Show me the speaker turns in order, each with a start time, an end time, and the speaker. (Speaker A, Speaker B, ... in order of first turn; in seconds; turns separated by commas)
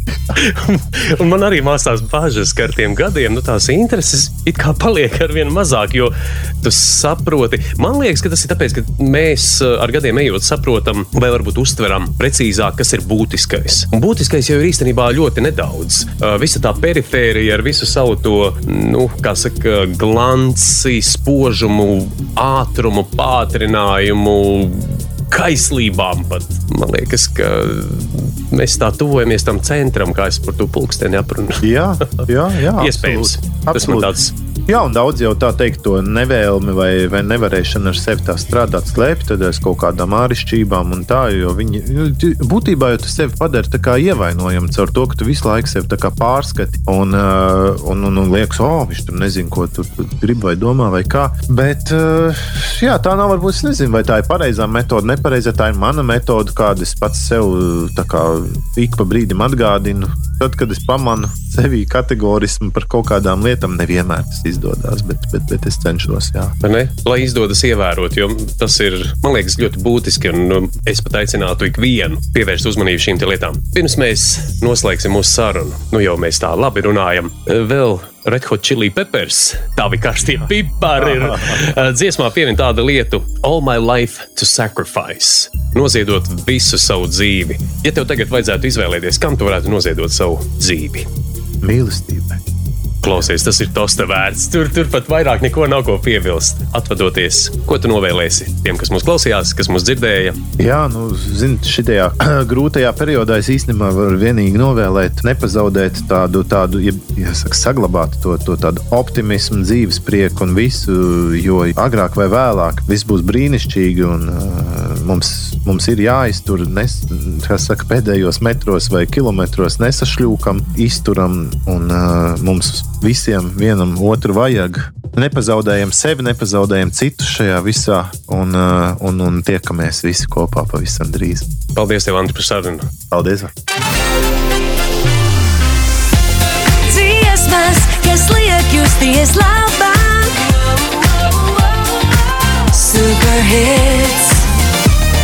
Speaker A: 0.3-34.3, Speaker B: 31.6-34.1, Speaker B: 34.7-66.5, Speaker A: 66.6-91.1, Speaker B: 91.6-92.4, Speaker A: 93.0-100.4, Speaker B: 100.6-131.5, Speaker A: 131.7-132.9, Speaker B: 133.1-133.5, Speaker C: 136.9-142.1, Speaker C: 142.7-144.5